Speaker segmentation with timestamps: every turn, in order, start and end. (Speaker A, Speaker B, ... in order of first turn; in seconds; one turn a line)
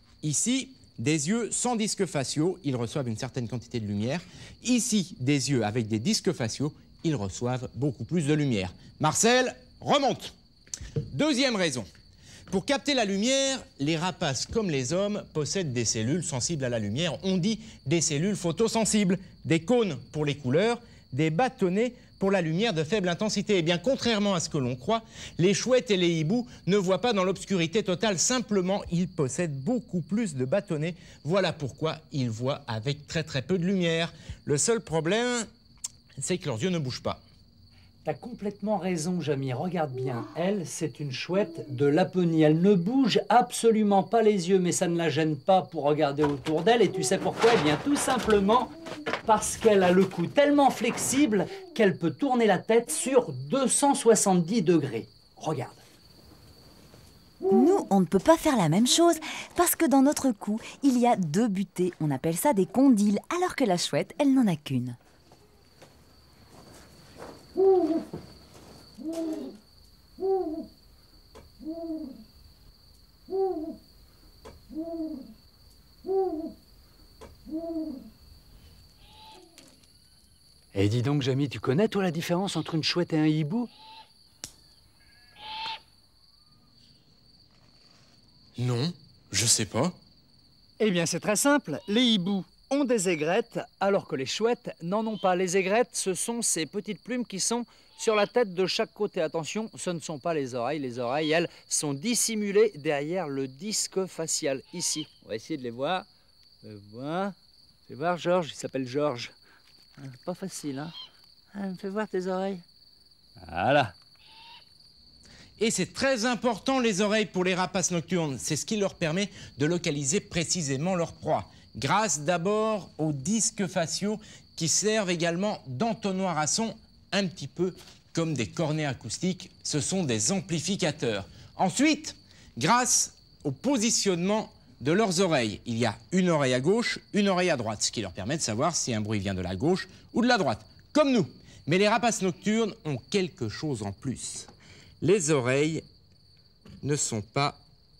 Speaker A: 0.2-10.3
Speaker A: 11.1-11.9
Speaker A: 12.5-35.5
Speaker A: 36.2-37.2
Speaker B: 38.0-48.7
Speaker B: 49.2-55.8
Speaker C: 57.5-65.0
Speaker B: 80.7-83.7
Speaker A: 88.6-90.0
Speaker B: 90.8-106.0
Speaker B: 106.6-107.3
Speaker B: 107.9-109.3
Speaker B: 110.0-110.9
Speaker B: 111.5-112.6
Speaker B: 113.4-113.9
Speaker A: 115.6-144.5
Speaker A: 145.0-145.8
Speaker A: 146.8-147.6